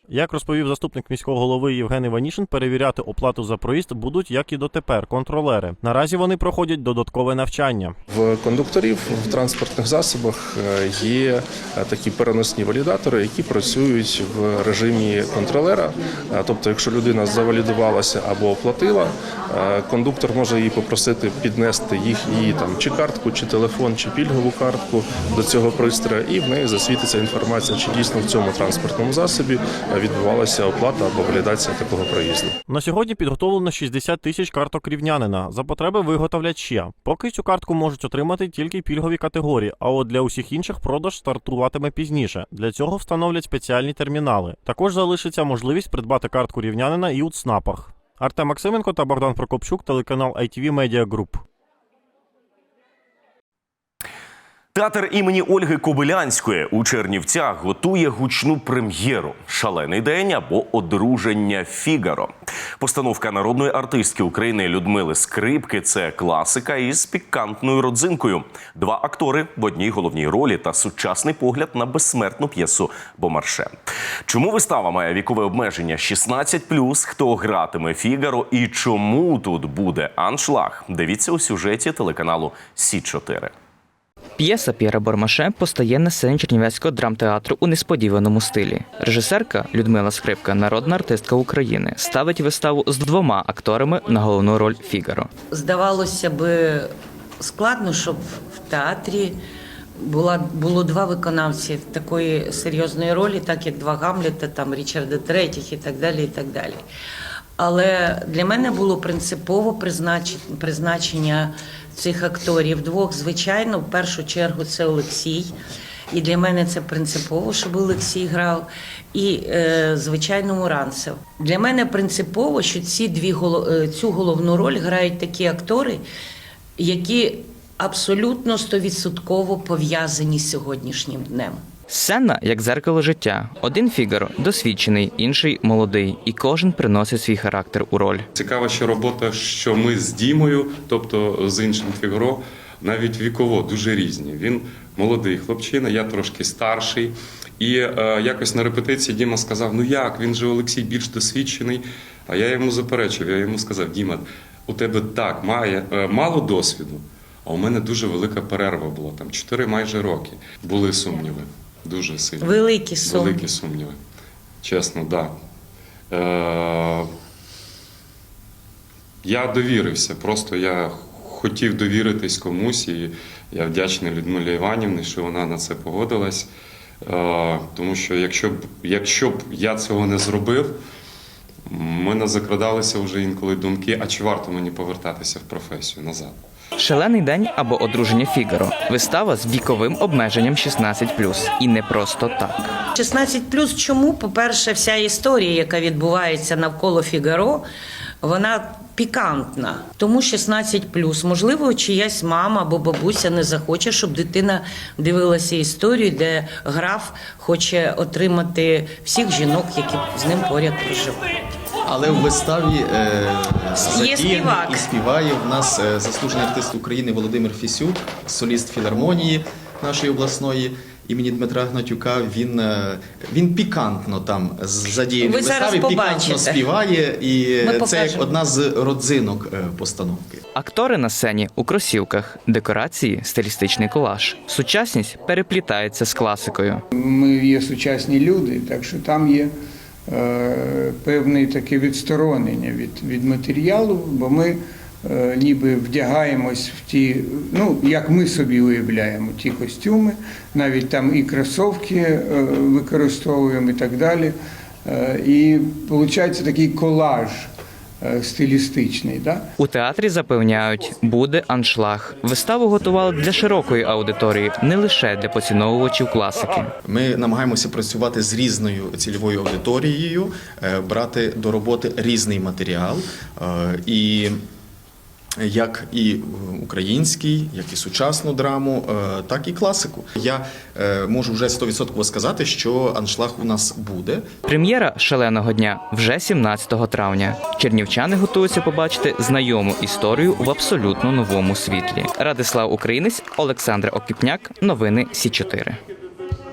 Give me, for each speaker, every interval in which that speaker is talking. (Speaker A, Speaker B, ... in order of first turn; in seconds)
Speaker A: 0.1-7.9, 32.7-51.4
Speaker B: 8.1-32.5
Speaker C: 54.7-83.5
Speaker D: 84.4-95.3, 131.9-138.2, 186.8-192.6, 230.5-236.8, 259.6-266.7, 284.4-295.8
Speaker E: 95.5-99.4, 100.0-106.8, 107.6-115.5, 116.1-126.0, 126.8-131.6, 162.4-163.4, 192.9-197.7, 198.2-211.3, 213.8-214.8, 225.2-226.7, 227.6-228.4
Speaker F: 138.3-164.0, 164.6-165.3, 166.1-167.1, 169.2-176.5, 177.1-180.7, 181.7-186.4
Speaker G: 211.8-230.4, 266.9-274.4, 275.4-284.2
Speaker H: 236.9-239.5, 240.1-254.3, 254.8-257.5, 258.0-259.4